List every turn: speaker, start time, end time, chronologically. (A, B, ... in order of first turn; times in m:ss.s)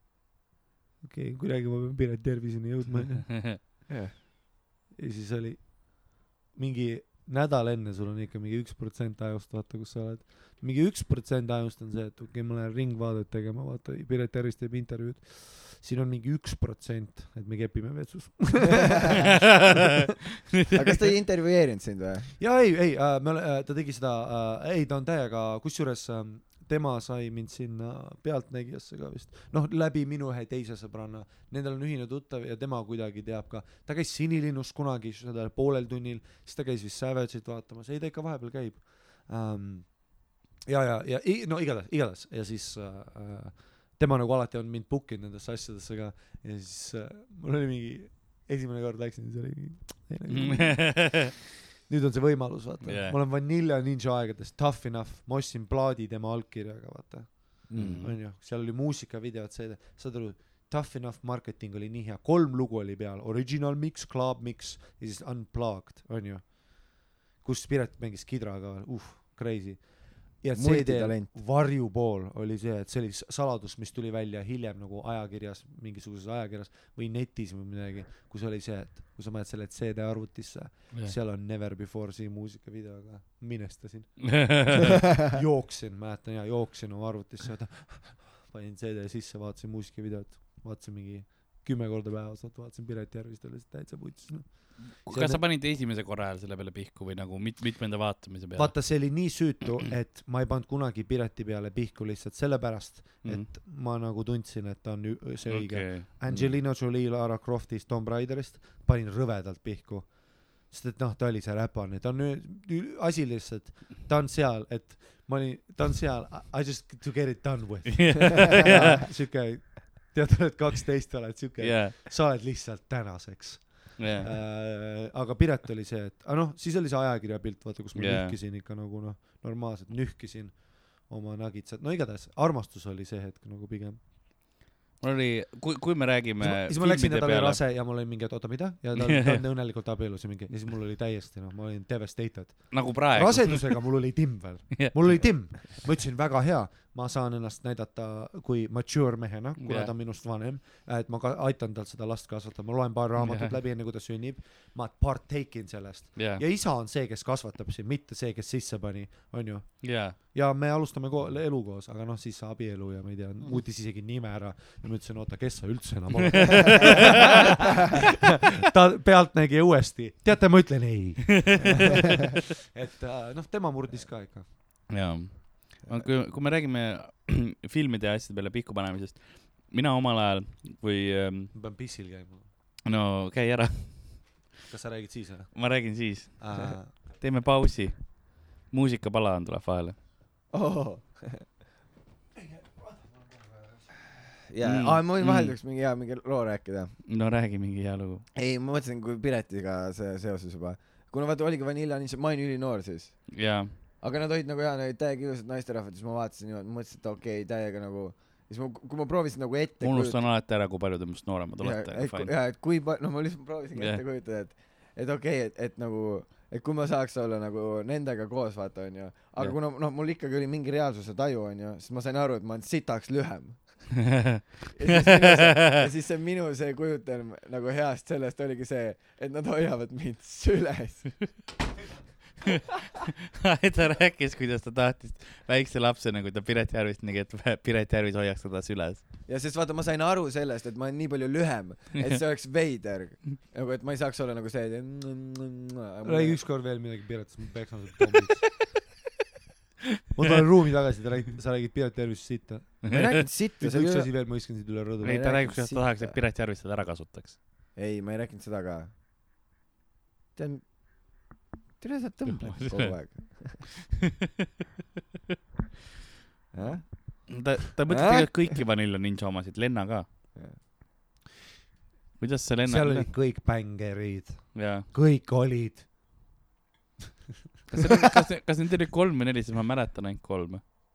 0:01.0-0:03.6 A
0:03.9-0:04.1 B
0:04.9-0:19.8 A
0:19.4-0:21.0 C
0:20.7-0:22.3 B
0:22.4-1:35.4 A
0:50.3-0:51.3 C
0:52.8-0:53.2 C
0:57.7-0:58.0 B
0:57.8-0:58.2 C
1:10.5-1:11.3 B
1:24.2-1:25.0 C
1:34.9-1:39.0 C
1:38.6-2:14.0 A
1:43.2-1:43.5 C
1:45.5-1:46.2 C
1:57.9-1:59.0 C
2:01.6-2:02.0 C
2:04.0-2:04.3 C
2:08.0-2:08.4 C
2:15.0-2:17.6 C
2:16.4-2:54.5 A
2:19.0-2:19.4 C
2:22.7-2:24.2 C
2:24.7-2:25.6 C
2:29.6-2:29.9 C
2:33.2-2:33.6 C
2:36.2-2:36.4 C
2:39.8-2:40.2 C
2:46.2-2:47.1 C
2:51.4-2:51.8 C
2:54.9-3:01.6 C
3:01.5-3:02.5 A
3:02.8-3:04.5 C
3:04.7-3:07.0 A
3:05.5-3:10.0 C
3:10.5-3:11.5 B
3:12.4-3:13.8 A
3:14.5-3:17.0 B
3:14.6-3:15.6 C
3:17.1-3:18.3 C
3:18.4-3:30.2 B
3:23.3-3:23.7 C
3:29.8-3:32.3 C
3:31.6-3:44.2 B
3:33.8-3:34.0 C
3:44.2-3:45.8 C
3:44.7-3:51.3 B
3:53.4-3:59.1 C
3:59.3-4:06.4 B
4:06.0-4:08.6 A
4:10.1-4:15.4 A
4:12.8-4:13.2 C
4:12.9-4:16.2 B
4:15.0-4:17.4 C
4:17.8-4:18.9 B
4:20.4-4:21.3 B
4:21.8-4:23.6 B
4:22.3-4:23.7 C
4:26.5-4:28.6 B
4:27.3-4:30.1 C
4:30.3-4:30.6 B
4:32.2-4:33.1 C
4:32.6-4:35.9 A
4:34.5-4:34.9 C
4:37.7-4:38.2 A
4:37.7-4:40.6 C